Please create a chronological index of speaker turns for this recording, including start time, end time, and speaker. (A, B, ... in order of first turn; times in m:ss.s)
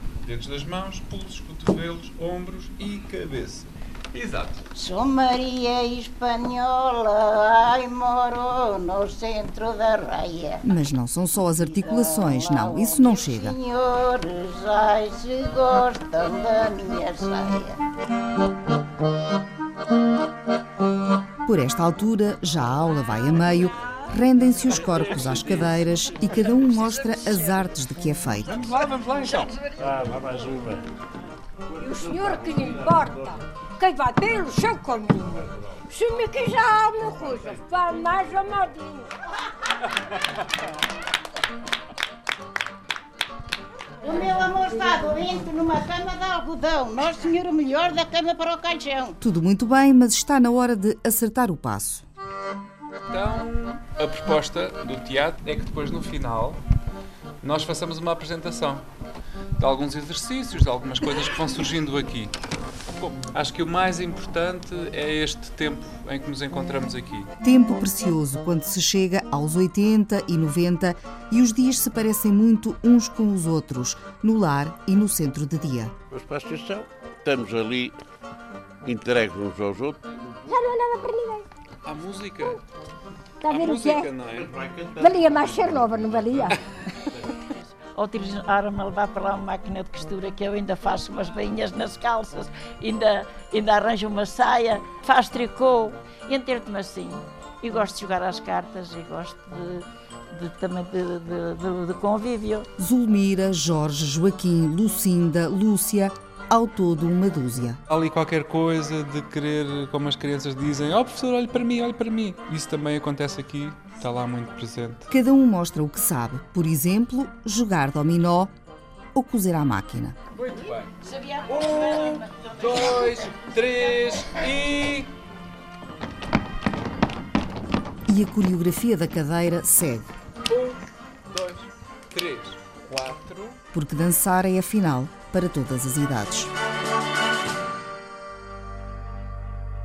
0:00.2-0:04.6 A
0:04.8-0:10.6 B
0:10.6-0:13.6 C
0:11.8-0:17.7 B
0:21.5-0:28.6 C
0:28.5-0:29.5 A
0:31.8-0:35.3 D
0:35.9-0:38.8 D
0:44.0-0:49.1 B
0:49.2-0:52.0 C
0:53.1-0:56.6 A
0:57.4-0:58.8 A
0:59.6-1:02.3 A
1:03.0-1:07.3 A
1:07.4-1:15.9 C
1:16.1-1:18.0 E
1:18.8-1:20.1 E
1:20.5-1:21.4 D
1:21.8-1:22.6 A
1:23.4-1:24.1 D
1:23.5-1:24.5 A
1:25.0-1:26.5 D
1:28.0-1:32.9 B
1:33.5-1:39.7 B
1:40.4-1:42.6 B
1:42.8-1:47.8 C
1:47.9-1:55.1 A
1:55.1-1:58.5 C
1:59.2-2:00.2 C
2:00.4-2:00.9 A
2:01.5-2:05.1 A
2:08.1-2:10.1 C
2:10.5-2:10.8 A
2:11.3-2:13.6 A
2:13.7-2:16.5 C